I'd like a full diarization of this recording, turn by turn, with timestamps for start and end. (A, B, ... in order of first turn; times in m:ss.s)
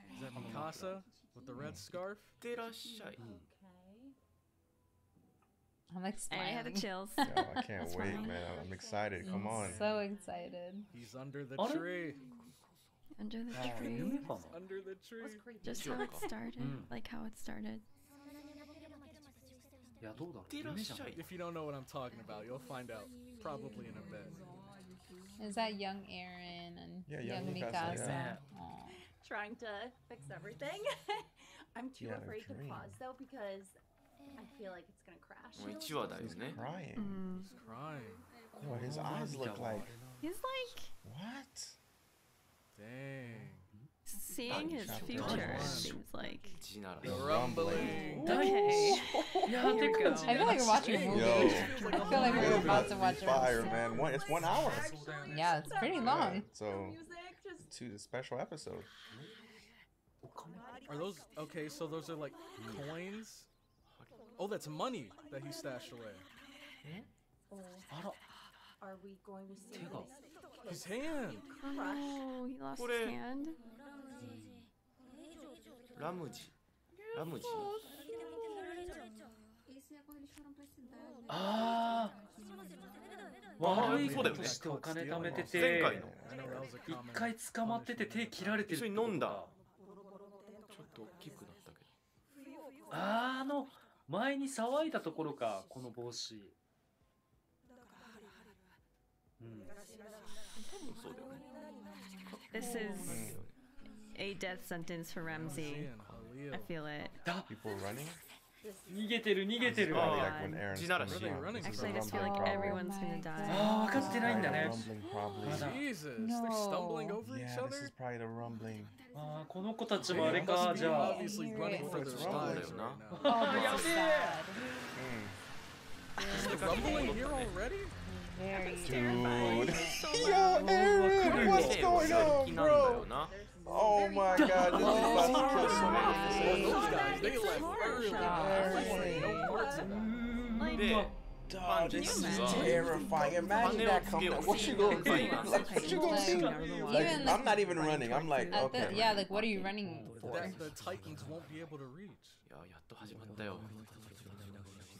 0:00.1-0:02.4 A
0:00.3-0:01.0 B
0:01.6-0:01.8 C
0:02.4-0:03.2 D
0:03.2-0:03.4 B
0:03.2-0:04.2 E
0:05.9-0:08.0 F
0:06.3-0:08.4 G
0:07.2-0:09.8 C
0:07.8-0:11.0 E
0:09.2-0:10.9 F
0:09.5-0:10.0 A
0:10.9-0:12.2 A
0:11.6-0:12.0 B
0:13.2-0:14.3 G
0:13.5-0:14.6 B
0:14.4-0:15.5 A
0:14.5-0:16.4 E
0:15.6-0:17.8 G
0:15.6-0:16.3 D
0:16.6-0:16.9 B
0:20.0-0:21.1 B
0:20.5-0:21.3 D
0:21.1-0:24.4 A
0:25.4-0:29.0 F
0:27.1-0:28.2 C
0:27.7-0:28.4 B
0:29.2-0:33.8 E
0:32.0-0:33.0 C
0:34.3-0:36.9 E
0:35.5-0:36.6 D
0:36.2-0:37.2 C
0:37.0-0:37.5 G
0:37.5-0:38.2 A
0:38.5-0:40.3 B
0:38.6-0:39.9 C
0:38.9-0:39.3 A
0:40.2-0:40.9 G
0:41.0-0:41.8 C
0:42.7-0:43.7 A
0:43.2-0:43.9 B
0:44.1-0:46.6 G
0:44.5-0:45.7 D
0:44.5-0:45.9 C
0:45.0-0:46.0 A
0:45.2-0:45.6 B
0:46.6-0:48.3 D
0:47.0-0:48.0 C
0:47.0-0:48.8 A
0:47.7-0:52.8 G
0:48.0-0:50.5 B
0:49.6-0:52.9 A
0:50.2-0:53.9 F
0:51.1-0:51.7 C
0:51.4-0:55.5 B
0:52.3-0:54.9 C
0:53.4-0:57.7 E
0:55.2-0:56.4 F
0:56.0-0:57.0 C
0:57.6-0:58.9 C
1:00.2-1:00.6 B
1:00.8-1:03.5 A
1:03.8-1:04.3 D
1:04.1-1:04.6 E
1:04.4-1:06.2 A
1:07.5-1:07.9 E
1:07.9-1:08.2 B
1:08.8-1:10.9 E
1:09.7-1:10.1 B
1:10.7-1:11.4 A
1:11.6-1:13.6 G
1:11.6-1:12.2 E
1:12.7-1:13.2 D
1:16.0-1:16.5 D
1:17.0-1:18.8 E
1:17.1-1:17.7 D
1:21.3-1:22.2 B
1:23.6-1:26.1 B
1:23.6-1:24.6 D
1:23.6-1:28.7 A
1:25.2-1:26.2 D
1:25.2-1:26.8 C
1:26.9-1:29.5 B
1:28.7-1:29.4 D
1:30.7-1:31.9 D
1:32.9-1:36.5 B
1:39.4-1:39.7 B
1:40.8-1:41.4 D
1:42.3-1:43.6 D
1:42.5-1:43.3 G
1:43.1-1:43.4 C
1:44.1-1:45.9 G
1:45.3-1:46.3 D
1:45.4-1:46.7 A
1:46.5-1:47.1 G
1:47.2-1:47.5 B
1:47.5-1:48.2 C
1:48.9-1:50.3 B
1:49.6-1:52.8 C
1:49.8-1:51.5 D
1:50.0-1:50.7 G
1:51.0-1:52.5 A
1:51.6-1:55.5 G
1:52.4-1:54.8 F
1:53.5-1:54.9 B
1:53.9-1:55.8 C
1:55.4-1:55.8 B
1:55.5-1:57.9 A
1:56.2-1:57.2 F
1:57.2-1:58.9 C
1:59.1-2:01.3 B
2:00.0-2:03.4 A
2:00.1-2:00.6 C
2:00.4-2:02.0 F
2:01.6-2:02.9 C
2:01.9-2:04.0 D
2:03.1-2:04.8 B
2:03.2-2:04.6 F
2:04.9-2:05.4 C
2:06.2-2:07.2 G
2:06.2-2:07.1 F
2:06.3-2:07.6 D
2:06.3-2:07.9 A
2:08.0-2:10.0 F
2:08.5-2:11.2 G
2:08.8-2:13.1 C
2:10.4-2:12.4 B
2:11.2-2:13.4 D
2:12.3-2:16.2 E
2:13.6-2:17.3 C
2:14.3-2:16.2 B
2:14.7-2:16.8 F
2:14.8-2:20.1 A
2:14.8-2:15.2 G
2:15.6-2:16.8 D
2:15.8-2:19.6 G
2:16.8-2:20.0 E
2:18.1-2:19.4 F
2:18.4-2:19.5 C
2:19.8-2:21.1 B
2:20.6-2:20.9 G
2:20.7-2:22.8 D
2:21.5-2:29.2 C
2:21.9-2:22.8 G
2:22.2-2:28.8 B
2:22.5-2:23.5 F
2:23.4-2:25.8 D
2:23.9-2:26.6 G
2:25.7-2:30.6 F
2:28.6-2:29.7 D
2:29.8-2:30.4 B
2:30.2-2:32.4 A
2:32.4-2:33.7 D